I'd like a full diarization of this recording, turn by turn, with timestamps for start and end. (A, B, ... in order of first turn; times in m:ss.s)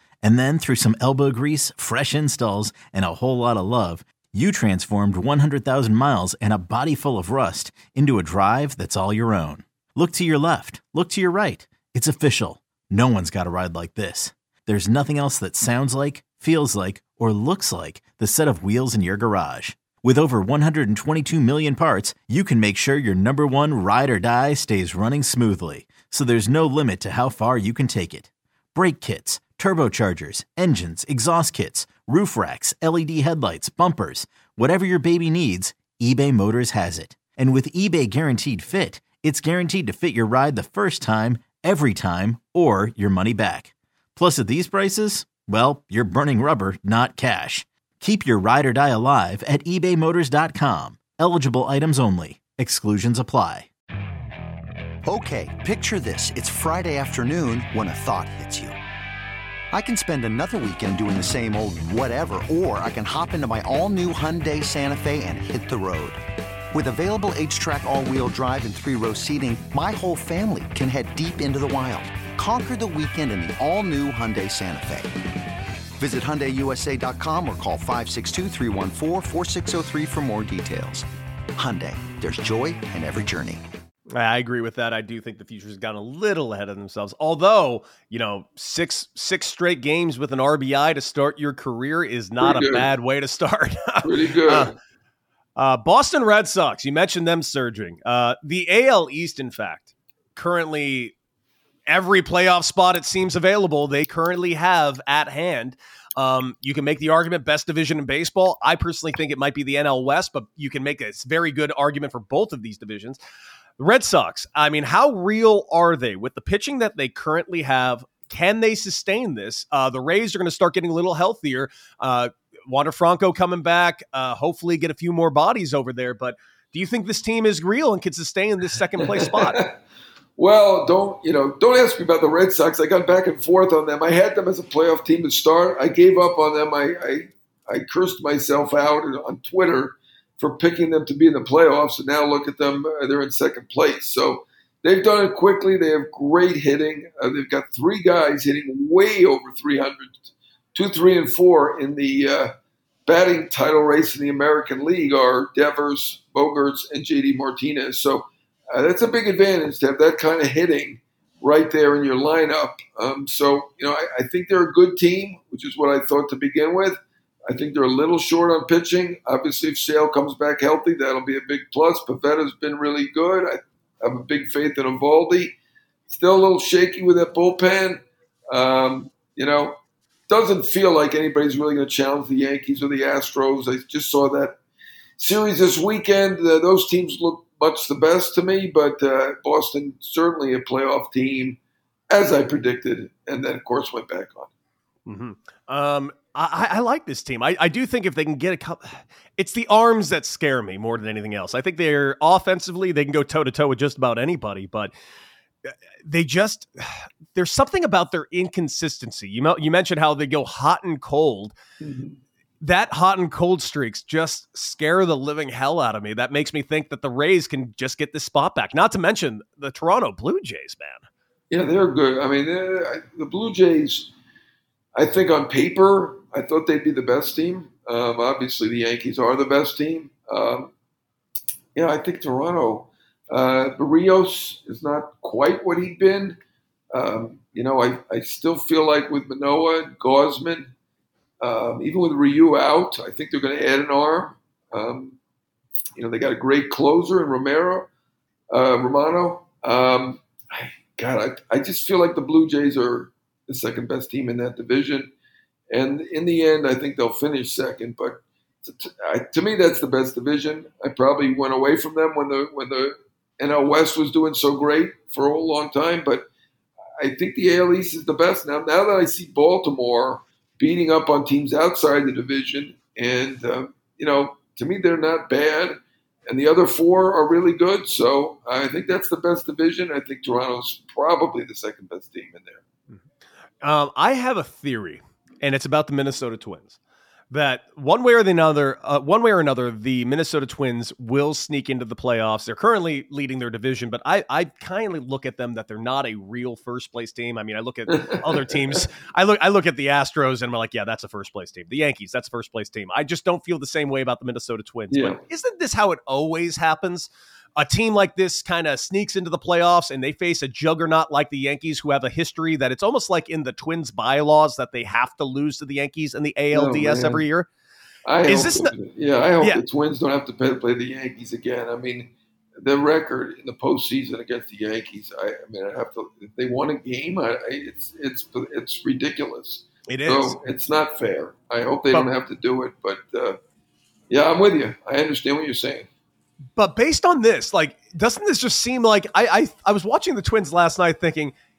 0:00.2-0:53.7 A
0:55.1-0:58.8 B
0:59.7-1:06.2 B
1:06.7-1:15.1 B
1:16.0-1:21.0 B
1:21.6-1:23.6 B
1:24.1-1:34.7 C
1:32.4-1:32.9 D
1:34.0-1:34.7 D
1:35.6-1:41.1 C
1:41.9-1:53.2 C
1:53.8-2:09.6 C
2:09.2-2:09.7 D
2:10.4-2:32.5 D
2:33.0-2:55.6 D
2:56.1-2:59.8 D
3:00.3-3:04.6 D
3:05.2-3:11.6 D
3:12.1-3:14.5 D
3:15.0-3:24.9 C
3:25.6-3:31.6 C
3:31.8-3:32.2 D
3:32.6-3:41.0 C
3:41.5-3:44.1 D
3:44.9-3:50.7 D
3:51.7-3:56.4 D
3:56.9-4:00.7 D
4:01.4-4:05.2 D
4:06.0-4:07.9 D
4:08.5-4:15.1 D
4:15.7-4:26.3 D
4:27.0-4:42.6 D
4:43.6-4:46.8 C
4:47.3-5:17.5 C
4:57.9-4:58.8 D
5:04.9-5:05.2 D
5:16.5-5:17.2 D
5:18.0-5:33.4 D
5:18.3-5:18.7 C
5:29.9-5:30.4 C
5:34.1-5:35.9 D
5:36.6-5:41.3 C